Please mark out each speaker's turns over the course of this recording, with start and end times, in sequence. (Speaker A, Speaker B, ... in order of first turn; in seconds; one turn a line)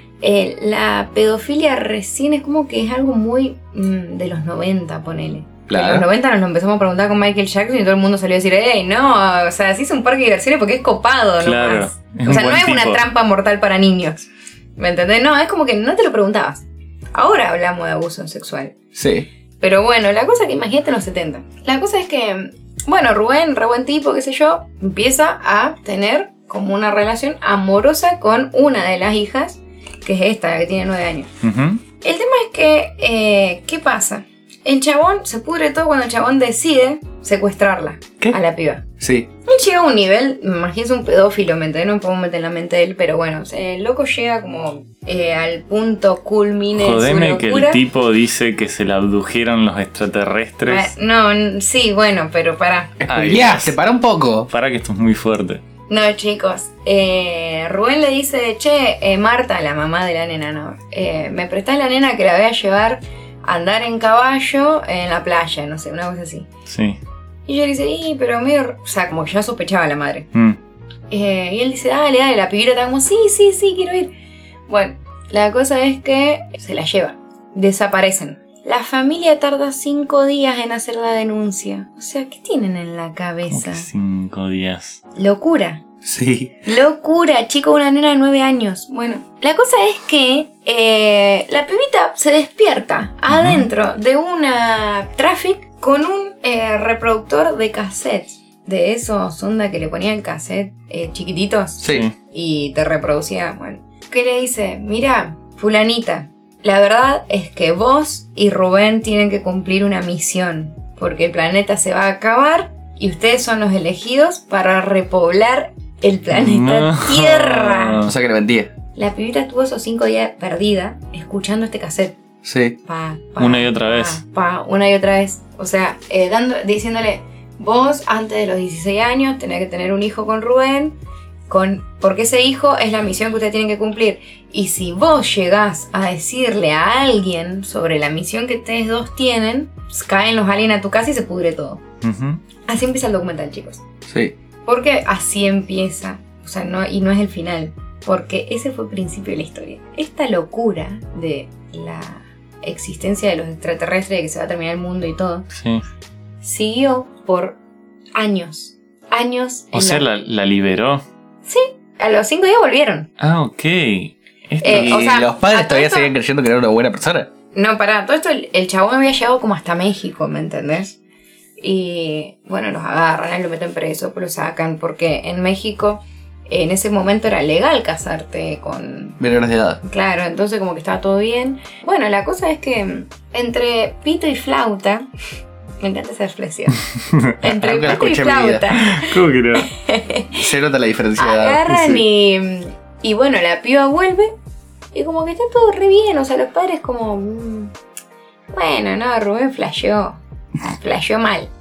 Speaker A: 0.2-18.8
Speaker B: 5.7-6.1
Speaker C: 11.4-13.0
Speaker B: 18.9-19.3
Speaker A: 19.6-31.3
Speaker C: 31.4-31.8
Speaker A: 32.0-38.8
Speaker B: 39.0-39.3
Speaker A: 39.5-47.8
Speaker C: 46.8-50.9
Speaker A: 50.7-53.0
Speaker B: 53.0-54.5
Speaker C: 53.1-53.8
Speaker C: 54.5-55.6
Speaker A: 55.9-66.5
Speaker C: 66.7-67.0
Speaker A: 67.5-70.3
Speaker A: 71.1-74.1
Speaker A: 74.7-83.9
Speaker C: 83.5-85.0
Speaker A: 85.2-85.8
Speaker B: 86.0-86.6
Speaker A: 86.7-118.1
Speaker C: 93.3-93.7
Speaker B: 101.8-102.1
Speaker C: 101.9-102.1
Speaker C: 116.3-118.1
Speaker B: 118.0-118.7
Speaker A: 119.0-122.2
Speaker B: 122.4-122.8
Speaker A: 122.8-131.0
Speaker C: 123.4-124.2
Speaker A: 131.5-141.8
Speaker C: 142.0-142.4
Speaker A: 142.7-143.8
Speaker B: 144.1-144.3
Speaker A: 144.7-155.5
Speaker C: 155.5-155.8
Speaker A: 156.4-157.6
Speaker A: 158.2-160.1
Speaker C: 159.7-161.0
Speaker A: 161.5-163.1
Speaker C: 163.2-164.9
Speaker A: 164.6-166.1
Speaker B: 164.7-167.3
Speaker A: 167.5-171.0
Speaker A: 171.6-179.2
Speaker B: 179.2-179.8
Speaker A: 179.8-185.1
Speaker A: 185.8-186.8
Speaker A: 187.4-190.5
Speaker B: 187.6-188.7
Speaker C: 188.8-189.7
Speaker B: 190.3-192.0
Speaker A: 191.2-194.3
Speaker A: 194.9-197.7
Speaker A: 198.5-201.5